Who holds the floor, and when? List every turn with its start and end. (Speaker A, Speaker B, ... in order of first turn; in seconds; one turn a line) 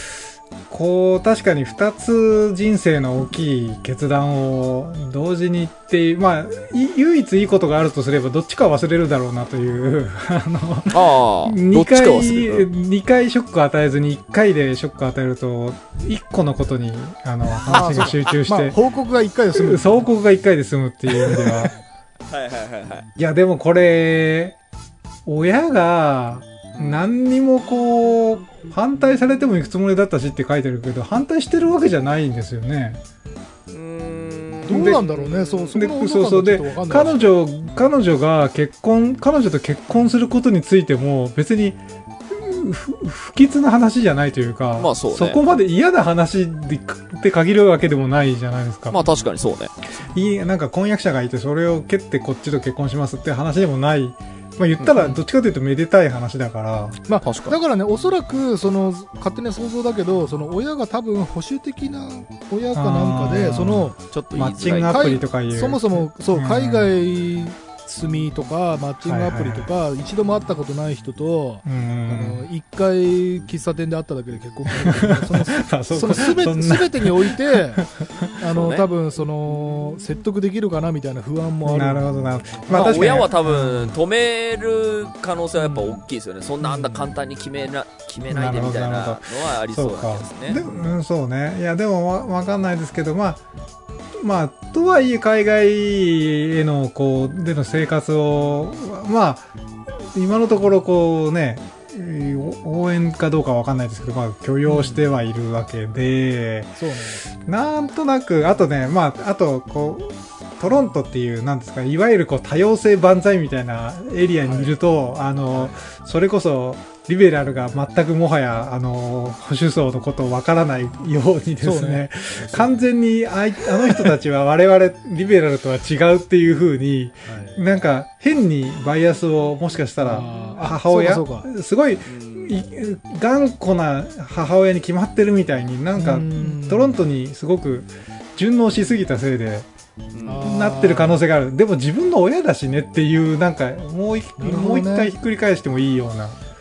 Speaker A: 0.7-18.8
Speaker B: 10.9-12.7
Speaker C: 17.7-20.1
Speaker B: 17.8-18.3
Speaker A: 19.5-21.8
Speaker C: 21.3-21.6
Speaker B: 22.3-23.1
Speaker A: 23.2-24.6
Speaker A: 25.3-33.0
Speaker B: 26.7-27.0
Speaker B: 33.7-35.8
Speaker C: 34.7-37.3
Speaker A: 34.7-35.0
Speaker A: 35.7-49.0
Speaker B: 44.8-45.4
Speaker B: 48.9-49.7
Speaker A: 50.0-57.0
Speaker B: 54.8-55.2
Speaker C: 57.1-64.0
Speaker B: 57.2-57.6
Speaker A: 62.8-66.9
Speaker B: 64.1-65.2
Speaker C: 64.9-83.2
Speaker A: 69.0-69.7
Speaker A: 71.7-72.5
Speaker A: 74.8-78.3
Speaker B: 78.5-78.9
Speaker A: 81.7-83.9
Speaker B: 82.7-90.9
Speaker A: 88.3-93.4
Speaker A: 94.2-99.5
Speaker A: 100.1-139.7
Speaker C: 104.7-105.0
Speaker C: 106.8-107.3
Speaker C: 114.4-114.7
Speaker C: 115.5-115.8
Speaker C: 121.6-122.8
Speaker C: 127.3-127.6
Speaker C: 130.0-131.5
Speaker B: 132.1-132.6
Speaker C: 135.9-137.0
Speaker B: 140.1-140.6
Speaker C: 140.2-141.2
Speaker A: 140.4-146.4
Speaker C: 144.4-145.1